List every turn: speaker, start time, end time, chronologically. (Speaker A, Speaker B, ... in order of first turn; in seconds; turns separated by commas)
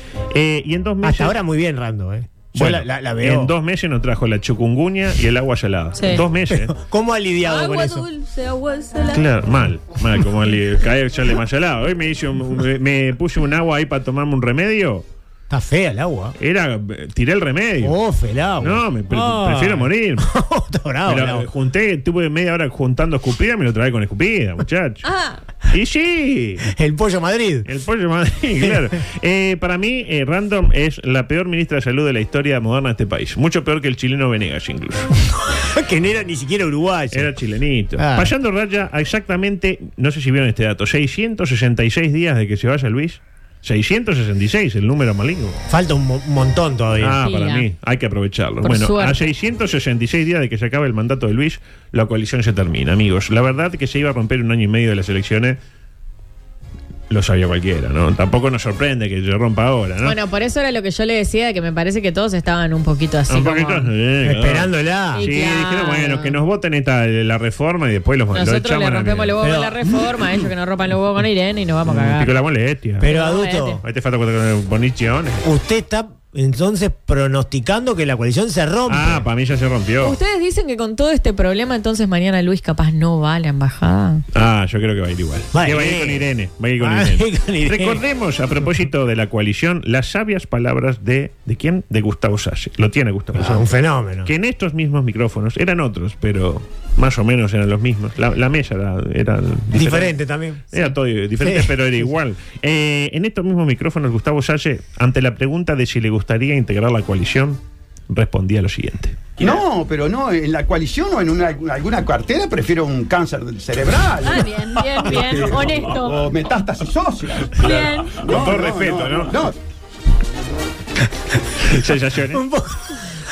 Speaker A: 0.3-1.4, Speaker B: 1.0-3.5, Speaker A: 2.5-6.7, Speaker C: 6.0-6.2, Speaker B: 6.5-8.1, Speaker C: 7.5-9.3, Speaker A: 9.1-15.0, Speaker B: 15.5-16.4, Speaker A: 16.4-18.0, Speaker B: 17.8-21.5, Speaker A: 18.6-20.3, Speaker A: 21.1-25.1, Speaker C: 25.0-25.4, Speaker A: 25.7-26.7, Speaker B: 26.7-27.7, Speaker A: 27.6-35.1, Speaker B: 35.3-37.3, Speaker A: 37.1-45.6, Speaker B: 38.0-38.3, Speaker B: 45.7-47.2, Speaker A: 47.0-55.6, Speaker C: 47.2-47.6, Speaker C: 48.6-49.3, Speaker A: 57.1-60.2, Speaker C: 60.0-63.9, Speaker A: 63.3-69.4, Speaker B: 64.2-65.3, Speaker C: 65.2-66.3, Speaker C: 68.3-72.3, Speaker B: 69.4-70.2, Speaker A: 71.9-73.1, Speaker B: 73.0-73.8, Speaker C: 73.0-73.8, Speaker A: 73.8-75.4, Speaker B: 75.4-79.2, Speaker A: 78.9-80.2, Speaker C: 80.0-84.2, Speaker A: 84.3-93.7, Speaker B: 85.5-86.3, Speaker B: 86.8-88.0, Speaker B: 93.3-94.3, Speaker A: 94.2-100.2, Speaker B: 99.7-100.7, Speaker A: 100.7-109.3, Speaker B: 101.4-101.8, Speaker D: 109.4-119.5, Speaker C: 114.2-116.3, Speaker C: 117.6-118.2, Speaker A: 118.2-119.4, Speaker A: 121.6-122.4, Speaker B: 122.3-123.0